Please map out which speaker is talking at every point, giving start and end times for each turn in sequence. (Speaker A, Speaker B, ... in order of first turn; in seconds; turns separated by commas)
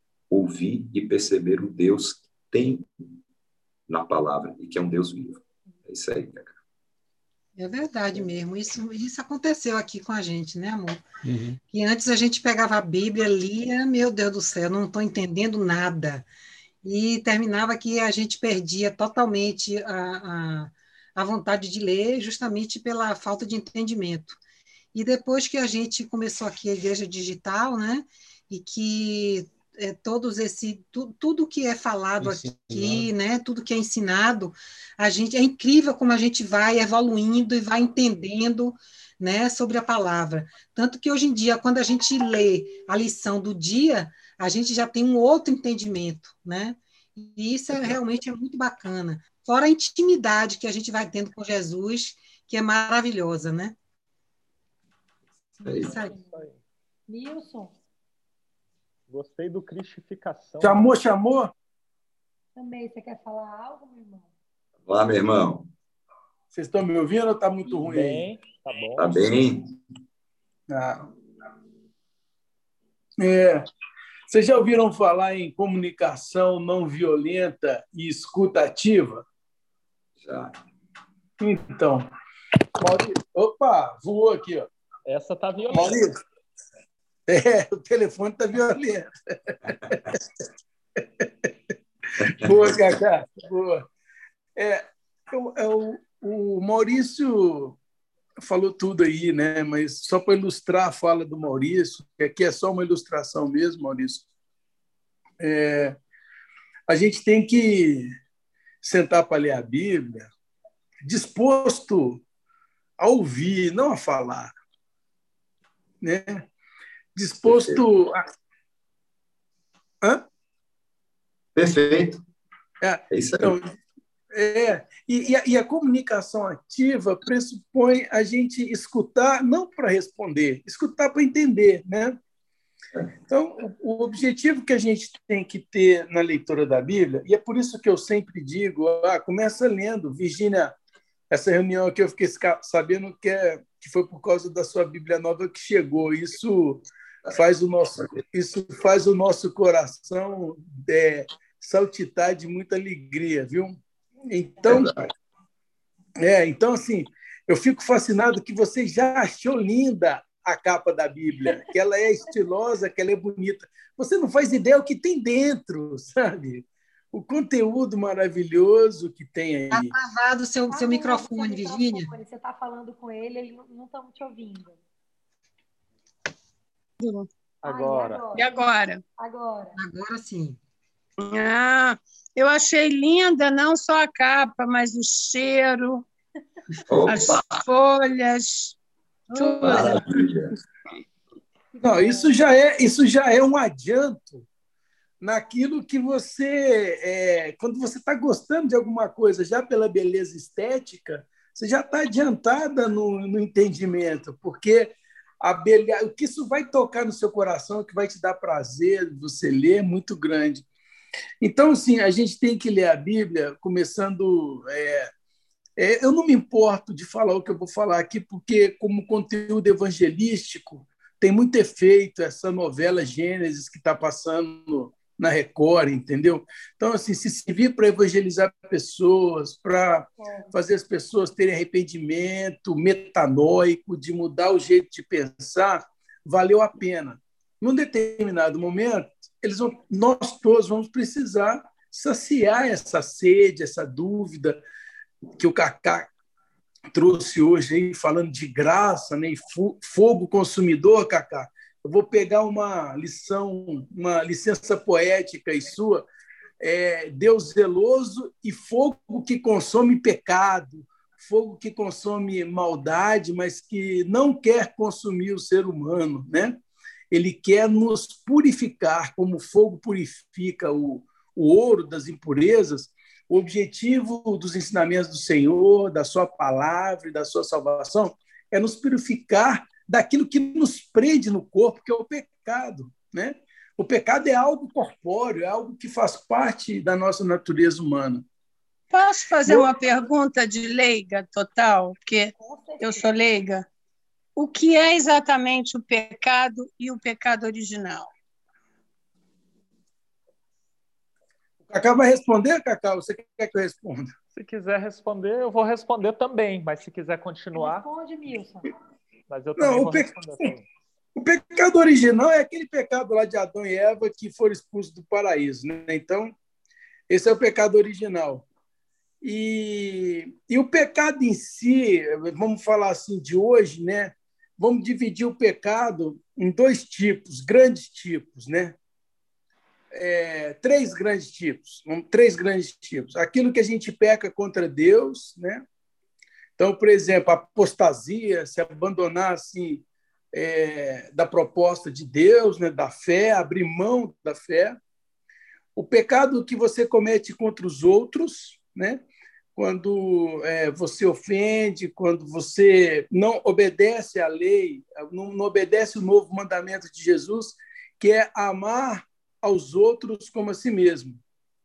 Speaker A: 0.3-2.8, Speaker A: 3.9-6.5, Speaker B: 7.6-11.0, Speaker B: 11.6-16.3, Speaker B: 16.8-24.4, Speaker B: 24.9-53.8, Speaker B: 55.6-56.1, Speaker C: 55.7-56.4, Speaker D: 55.9-56.6, Speaker C: 57.1-57.7, Speaker D: 59.1-60.8, Speaker E: 60.6-61.5, Speaker C: 62.5-64.3, Speaker A: 64.8-65.7, Speaker E: 66.5-68.2, Speaker D: 67.6-69.3, Speaker A: 69.0-69.7, Speaker E: 70.7-71.1, Speaker E: 73.2-73.7, Speaker E: 74.3-79.2, Speaker A: 80.2-80.5, Speaker E: 81.4-82.1, Speaker E: 82.8-84.7, Speaker D: 85.0-86.0, Speaker E: 85.7-86.1, Speaker E: 87.3-90.2, Speaker E: 91.0-91.5, Speaker E: 92.2-93.9, Speaker A: 92.3-92.7, Speaker E: 94.5-97.8, Speaker E: 98.4-104.2, Speaker E: 105.4-106.0, Speaker E: 106.9-108.1, Speaker E: 108.8-110.3, Speaker E: 111.0-112.2, Speaker E: 113.0-114.5, Speaker E: 116.0-116.5, Speaker E: 117.1-118.2, Speaker A: 117.4-117.8, Speaker A: 121.5-122.2, Speaker E: 122.8-123.7, Speaker A: 123.1-123.5, Speaker E: 124.3-132.2, Speaker E: 133.3-140.7, Speaker E: 141.3-154.9, Speaker A: 154.7-155.1, Speaker E: 156.2-169.9, Speaker B: 169.7-172.1, Speaker C: 170.7-174.8, Speaker F: 177.0-177.3, Speaker D: 177.6-178.2, Speaker C: 177.6-178.6, Speaker F: 178.3-179.0, Speaker C: 179.2-179.8, Speaker B: 179.8-180.6, Speaker F: 181.2-186.1, Speaker A: 186.9-187.4, Speaker F: 187.1-188.8, Speaker F: 189.3-190.0, Speaker A: 189.6-190.5, Speaker E: 191.8-194.4, Speaker C: 191.9-192.1, Speaker E: 195.2-210.7, Speaker E: 211.4-215.1, Speaker E: 215.8-244.6, Speaker C: 230.2-230.5, Speaker E: 245.4-246.1, Speaker E: 246.9-256.1, Speaker E: 256.6-266.6, Speaker E: 267.1-288.2, Speaker F: 288.9-293.6, Speaker C: 292.4-293.1, Speaker F: 294.4-298.1, Speaker E: 301.7-304.1, Speaker D: 304.3-307.9, Speaker C: 307.5-308.7, Speaker D: 309.3-310.6, Speaker E: 309.6-310.5, Speaker E: 311.1-316.3, Speaker E: 317.1-318.4, Speaker E: 319.2-328.7, Speaker E: 329.9-335.6, Speaker E: 336.6-344.8, Speaker E: 345.8-349.0, Speaker E: 349.6-361.2